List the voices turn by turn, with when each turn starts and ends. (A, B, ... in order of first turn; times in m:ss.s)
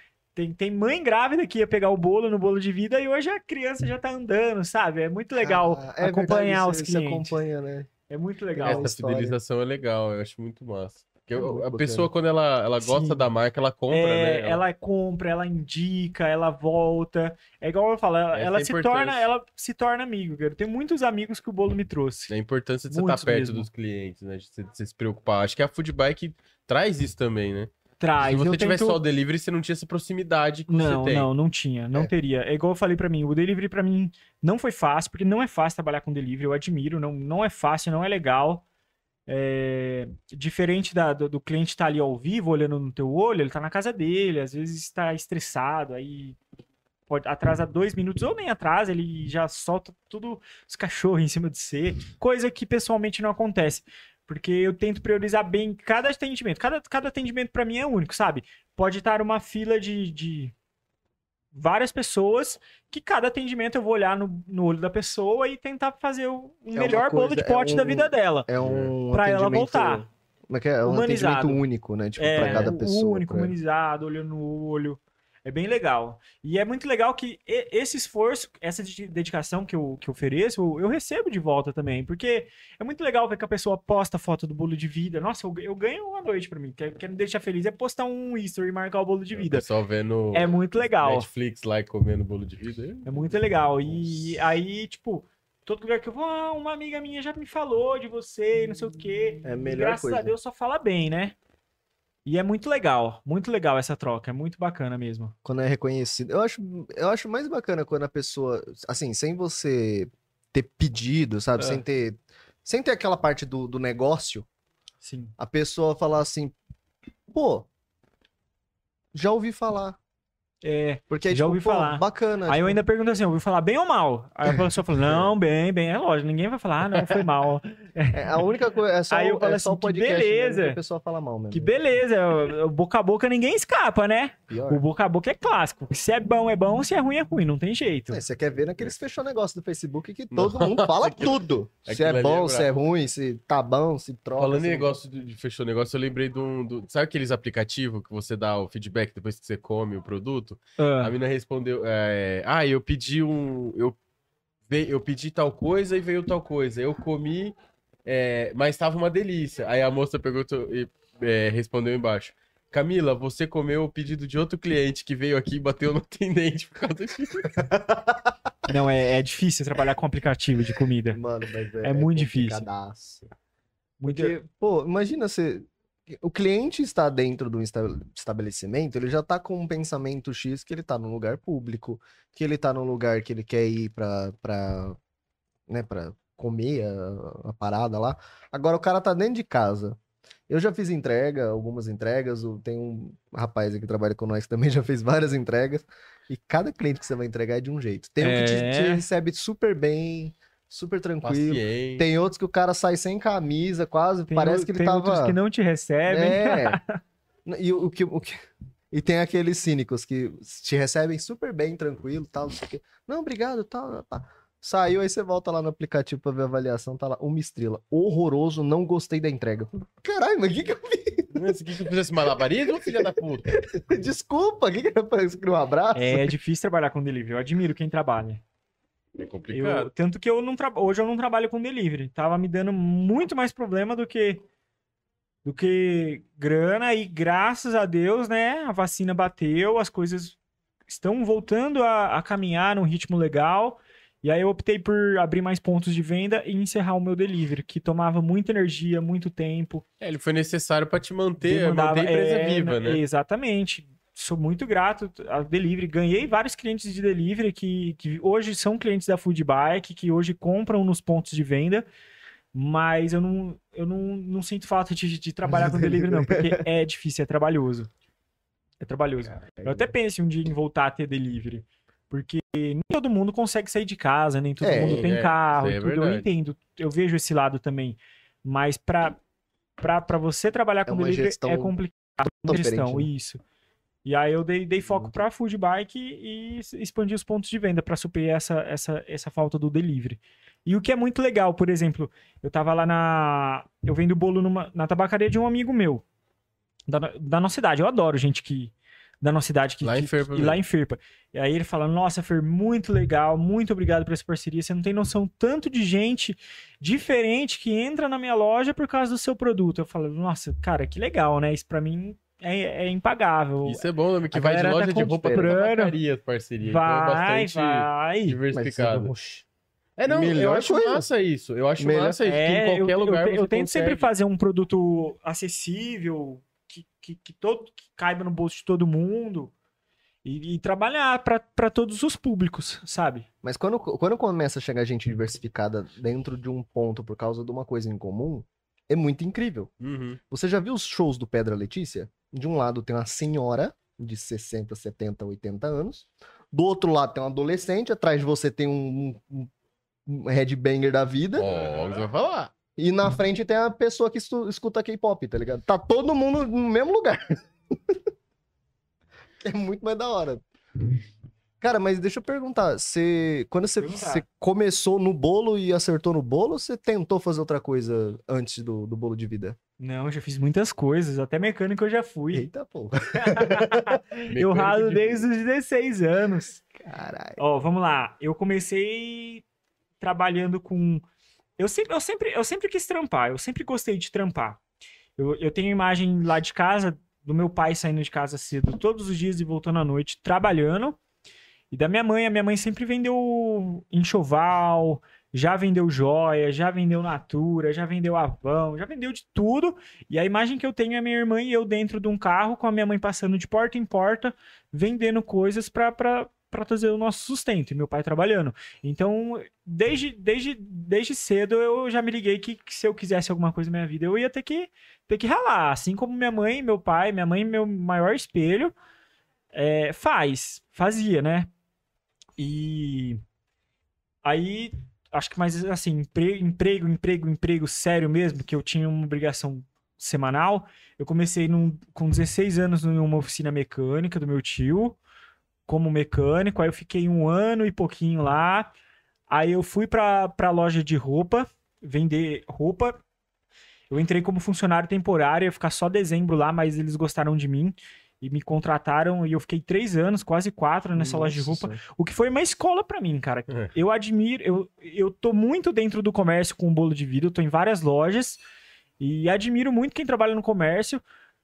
0:00.3-0:07.4 A
0:05.4-0:07.9 B
0:08.1-0:08.9 A
0:08.5-0:09.4 B
0:08.6-0:14.6 C
0:11.3-0:12.1 B
0:12.8-0:13.3 A
0:13.9-0:22.3 A
0:18.3-0:19.3 C
0:22.3-0:31.3 C
0:22.9-0:23.7 A
0:28.0-0:29.0 A
0:30.7-0:38.6 A
0:39.3-0:46.4 A
0:47.1-1:00.5 A
1:01.5-1:08.5 A
1:06.7-1:13.5 B
1:08.6-1:08.9 C
1:09.1-1:10.1 A
1:10.8-1:11.6 A
1:12.2-1:29.6 A
1:12.4-1:12.7 C
1:29.3-1:33.3 C
1:30.3-1:31.3 A
1:33.0-1:41.3 A
1:39.4-1:40.3 B
1:42.2-1:45.3 A
1:45.4-1:54.4 B
1:55.0-1:55.3 A
1:55.4-1:56.5 B
1:57.3-1:57.7 B
1:59.1-2:00.0 B
2:00.6-2:08.4 A
2:01.1-2:02.8 B
2:06.9-2:07.2 C
2:08.1-2:11.8 B
2:09.1-2:10.8 A
2:11.5-2:18.2 A
2:14.5-2:14.8 B
2:18.1-2:25.0 B
2:20.3-2:21.3 C
2:21.8-2:22.7 C
2:24.4-2:34.0 C
2:30.8-2:31.1 A
2:34.7-2:37.5 C
2:38.0-2:47.6 C
2:47.6-2:48.3 B
2:48.7-2:51.2 A
2:51.1-2:53.2 B
2:51.8-2:52.6 A
2:54.0-2:54.4 A
2:54.1-3:05.0 B
3:05.7-3:10.0 B
3:10.5-3:25.4 B
3:18.2-3:19.0 A
3:21.2-3:22.0 C
3:24.3-3:27.0 A
3:26.1-3:26.8 B
3:27.4-3:28.4 B
3:28.9-3:41.5 B
3:41.3-3:43.5 C
3:42.3-3:46.3 B
3:45.9-3:48.4 A
3:49.2-3:49.9 C
3:49.5-3:54.4 A
3:55.4-4:00.4 A
4:00.9-4:09.8 A
4:10.0-4:13.0 C
4:11.4-4:21.8 A
4:22.5-4:27.9 A
4:25.4-4:26.6 B
4:28.8-4:39.2 A
4:29.4-4:29.9 B
4:34.6-4:35.1 B
4:34.8-4:36.2 C
4:39.8-4:43.4 A
4:40.8-4:41.7 B
4:42.4-4:43.1 B
4:44.0-4:56.0 A
4:56.9-5:16.0 A
4:59.8-5:00.6 C
5:13.6-5:19.1 C
5:15.3-5:15.6 B
5:16.6-5:18.4 A
5:18.5-5:19.4 B
5:20.0-5:24.1 C
5:20.1-5:21.1 B
5:21.8-5:22.2 B
5:22.2-5:29.5 A
5:30.2-5:33.2 A
5:33.4-5:39.7 B
5:39.8-5:40.2 C
5:40.3-5:49.5 B
5:50.0-5:51.5 B
5:51.4-5:52.5 C
5:52.8-5:58.0 B
5:59.4-6:00.4 B
6:01.6-6:09.6 B
6:03.8-6:04.2 A
6:09.8-6:12.5 A
6:12.3-6:14.0 B
6:13.1-6:16.6 A
6:14.3-6:15.3 C
6:16.8-6:17.4 B
6:17.4-6:19.4 A
6:20.0-6:21.0 A
6:21.6-6:24.6 A
6:25.2-6:31.0 A
6:31.7-6:58.7 A
6:59.5-7:01.5 A
7:02.4-7:03.2 A
7:04.2-7:15.0 A
7:15.7-7:18.7 A
7:19.3-7:23.0 A
7:23.9-7:38.4 A
7:31.0-7:31.8 B
7:39.0-7:41.0 A